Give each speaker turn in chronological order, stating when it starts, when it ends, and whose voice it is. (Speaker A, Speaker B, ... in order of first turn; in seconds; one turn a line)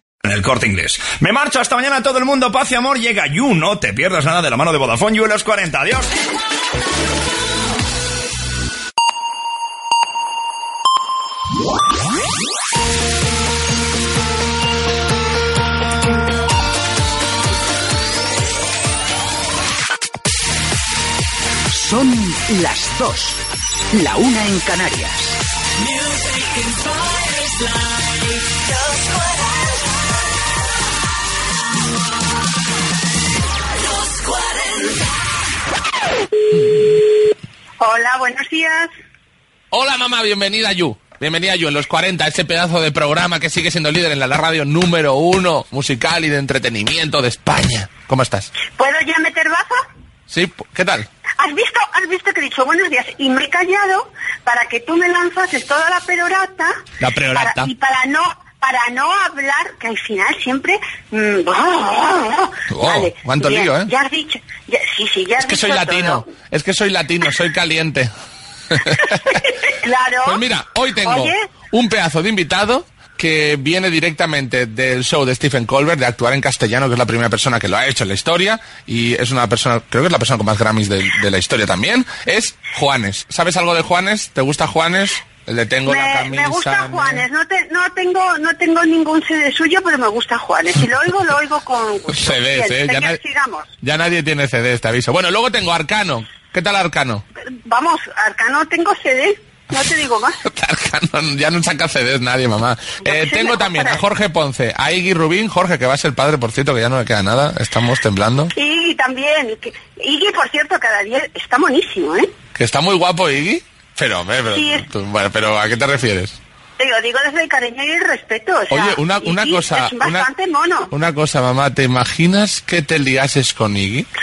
Speaker A: 0.2-6.1
Speaker B: 21.7-25.4
Speaker C: 37.8-38.9
Speaker D: 39.7-48.5
Speaker C: 48.8-49.8
Speaker D: 50.3-51.1
Speaker C: 51.4-66.2
Speaker D: 57.0-57.7
Speaker D: 62.7-63.9
Speaker D: 65.4-68.1
Speaker D: 68.7-69.4
Speaker C: 68.9-70.4
Speaker D: 70.2-87.2
Speaker C: 71.0-71.5
Speaker C: 85.8-93.6
Speaker D: 92.1-93.2
Speaker D: 93.8-97.2
Speaker C: 97.7-100.3
Speaker D: 100.4-108.5
Speaker C: 103.0-104.0
Speaker C: 108.5-112.3
Speaker D: 112.5-116.3
Speaker C: 114.5-114.8
Speaker C: 116.8-120.9
Speaker D: 118.7-120.3
Speaker D: 120.9-124.1